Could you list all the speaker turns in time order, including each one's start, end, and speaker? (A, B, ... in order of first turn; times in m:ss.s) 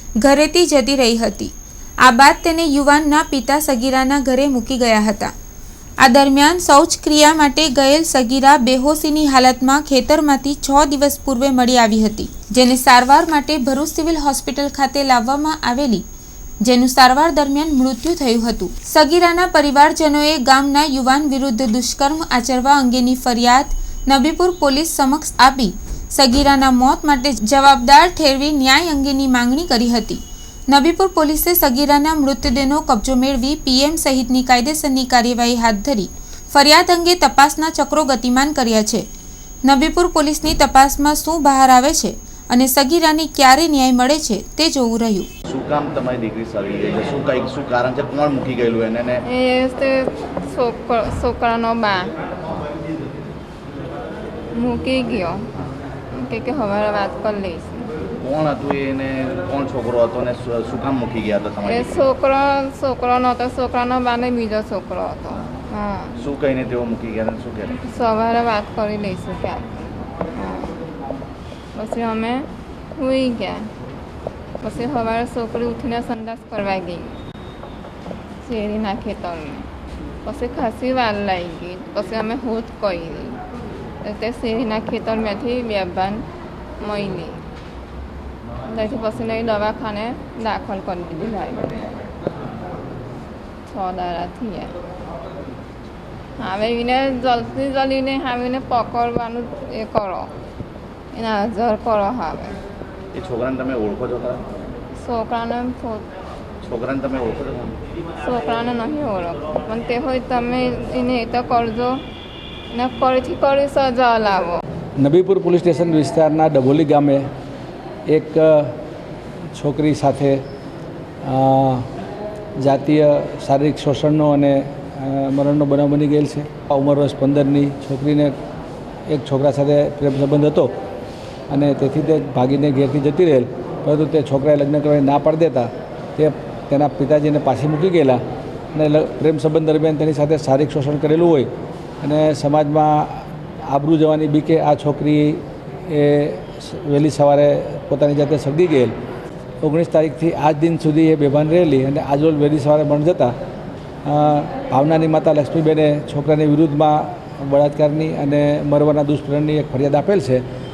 0:00.2-0:05.3 A
0:06.0-0:16.0 A
0:16.6-0:39.0 A
0:39.6-0:45.3 A
0:45.5-0:49.2 B
0:49.2-0:52.1 C
0:54.5-0:55.4 C
0:56.1-0:57.9 C
0:58.2-1:02.0 B
1:01.6-1:06.1 C
1:06.2-1:07.7 B
1:07.8-1:10.8 C
1:11.7-1:13.7 C
1:14.6-1:17.2 C
1:18.4-1:19.7 C
1:20.2-1:23.4 C
1:24.0-1:26.2 C
1:26.8-1:27.4 C
1:28.6-1:32.0 C
1:33.7-1:34.7 C
1:36.4-1:40.3 C
1:41.1-1:42.6 C
1:43.1-1:44.4 B
1:45.0-1:46.0 C
1:46.6-1:47.7 B
1:48.2-1:52.0 C
1:52.7-1:54.6 C
1:55.0-1:57.3 D
1:58.1-1:58.8 D
1:59.5-2:00.4 D
2:01.2-2:01.9 D
2:02.6-2:08.3 D
2:09.1-2:10.7 D
2:11.5-2:18.2 D
2:18.7-2:21.5 D
2:22.0-2:28.9 D
2:29.6-2:33.3 D
2:34.0-2:40.4 D